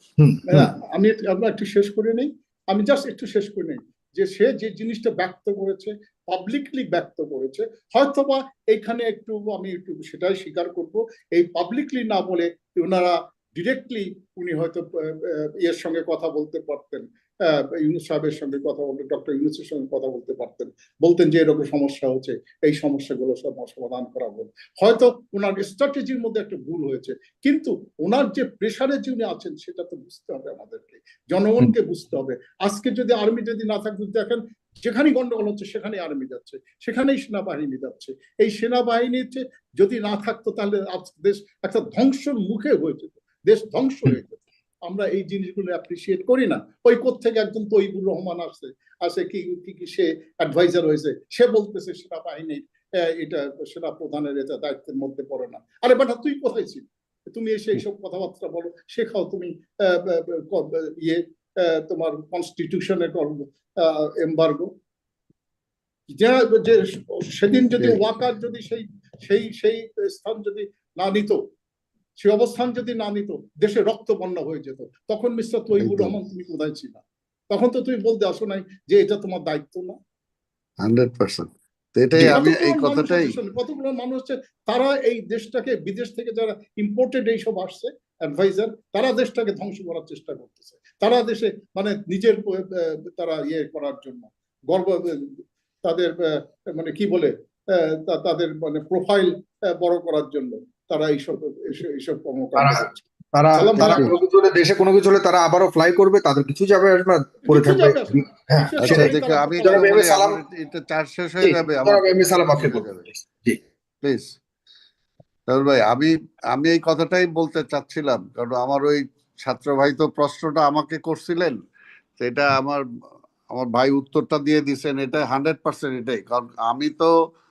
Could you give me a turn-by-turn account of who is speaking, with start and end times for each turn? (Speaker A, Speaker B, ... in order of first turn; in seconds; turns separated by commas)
Speaker A: 0.2-0.7, Speaker B: 0.5-64.7, Speaker B: 66.2-71.4, Speaker B: 72.2-80.0, Speaker C: 75.8-76.1, Speaker C: 80.8-83.3, Speaker B: 82.2-95.3, Speaker B: 95.8-103.0, Speaker A: 102.6-110.4, Speaker B: 103.5-104.2, Speaker B: 107.5-110.0, Speaker C: 108.8-113.0, Speaker A: 111.4-113.6, Speaker C: 114.0-114.3, Speaker C: 115.5-121.6, Speaker C: 122.2-122.8, Speaker C: 123.5-127.1